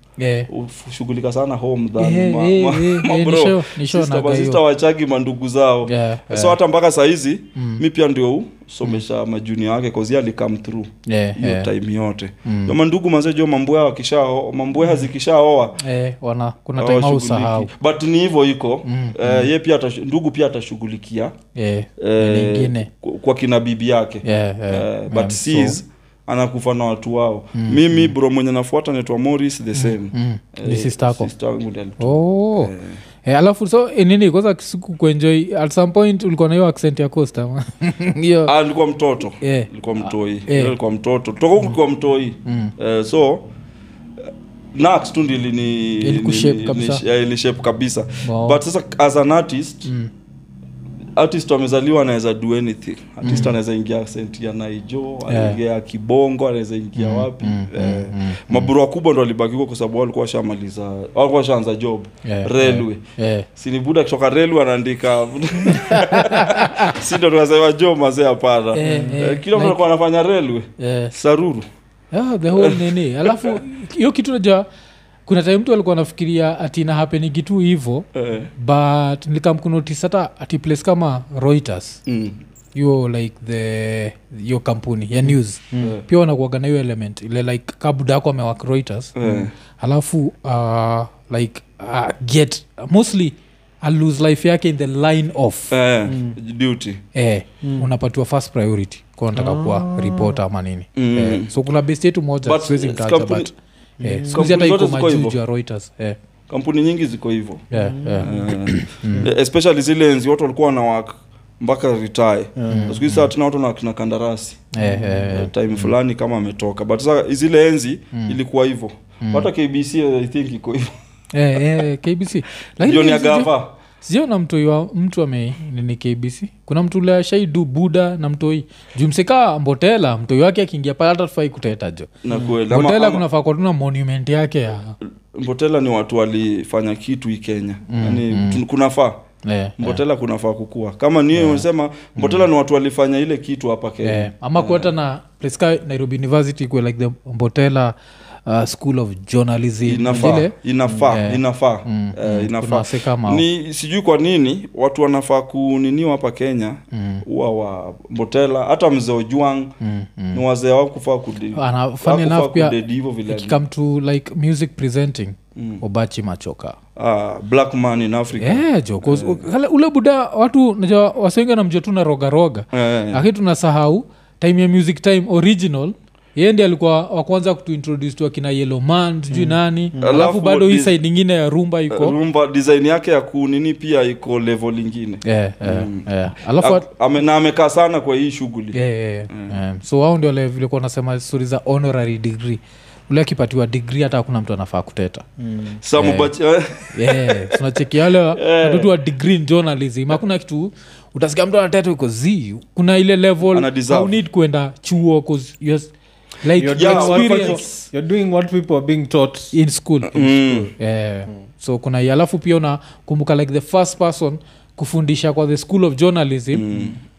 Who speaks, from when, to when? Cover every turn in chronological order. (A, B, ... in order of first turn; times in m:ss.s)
0:00.2-0:00.5 A
0:00.5-0:15.8 B
0:02.0-0:04.6 A
0:05.8-0:06.6 A
0:07.6-0:07.8 A
0:11.0-0:11.7 A
0:12.4-0:12.7 A
0:15.8-0:17.7 A
0:16.8-0:21.3 B
0:18.8-0:19.5 A
0:21.5-0:22.9 A
0:22.0-0:33.0 B
0:24.2-0:25.8 A
0:27.5-0:28.1 A
0:29.7-0:31.3 A
0:32.0-0:32.7 A
0:33.2-0:38.5 A
0:38.4-0:43.5 B
0:39.4-0:40.8 A
0:42.4-0:42.7 A
0:44.7-0:49.9 B
0:46.0-0:47.0 A
0:48.2-0:48.6 A
0:49.8-0:50.1 A
0:51.2-1:03.0 B
0:53.2-0:53.6 A
0:55.3-0:55.6 A
0:57.0-0:58.7 A
1:02.2-1:03.5 A
1:03.6-1:11.6 B
1:05.6-1:07.0 A
1:08.7-1:09.8 A
1:08.8-1:09.2 C
1:10.8-1:11.1 A
1:12.1-1:14.6 A
1:12.5-1:13.6 B
1:15.3-1:22.0 A
1:18.1-1:18.5 B
1:22.0-1:22.4 B
1:22.7-1:29.2 A
1:25.8-1:26.0 B
1:29.2-1:29.5 B
1:29.8-1:35.7 A
1:35.7-1:37.0 B
1:36.0-1:36.4 C
1:37.1-1:46.2 A
1:37.6-1:37.9 C
1:39.3-1:40.4 C
1:41.0-1:41.5 B
1:42.4-1:43.5 B
1:44.0-1:44.4 C
1:44.3-1:45.4 B
1:46.5-1:47.6 B
1:47.7-1:49.3 A
1:47.7-1:48.5 C
1:48.2-1:54.7 B
1:52.6-1:52.9 C
1:52.7-1:53.3 A
1:54.7-1:55.9 A
1:54.8-1:55.2 C
1:55.3-2:00.9 B
1:59.2-1:59.5 A
2:01.3-2:03.5 A
2:02.8-2:03.7 B
2:04.0-2:15.0 A
2:12.2-2:13.2 B
2:15.3-2:19.2 B
2:17.9-2:18.6 A
2:19.4-2:20.0 A
2:19.8-2:24.9 B
2:21.3-2:21.6 A
2:22.2-2:22.5 A
2:24.0-2:33.4 A
2:29.8-2:39.7 B
2:30.1-2:30.4 C
2:36.9-2:37.2 A
2:39.8-2:40.4 A
2:40.3-2:43.6 B
2:41.5-2:46.8 A
2:45.6-2:45.8 B
2:47.0-2:49.5 B
2:48.4-3:02.2 A
2:52.7-2:53.2 B
2:59.3-3:00.1 C
3:00.0-3:01.0 B
3:01.9-3:08.8 B
3:05.2-3:06.8 A
3:08.7-3:15.2 A
3:09.3-3:09.6 B
3:15.4-3:15.8 C
3:15.8-3:17.6 B
3:16.0-3:16.3 A
3:16.9-3:27.6 A
3:18.3-3:18.9 B
3:23.5-3:24.2 B
3:26.6-3:29.5 C
3:26.7-3:27.9 B
3:29.5-3:30.1 A
3:30.0-3:30.7 B
3:30.3-3:30.7 C
3:30.8-3:36.6 A
3:36.5-3:37.0 B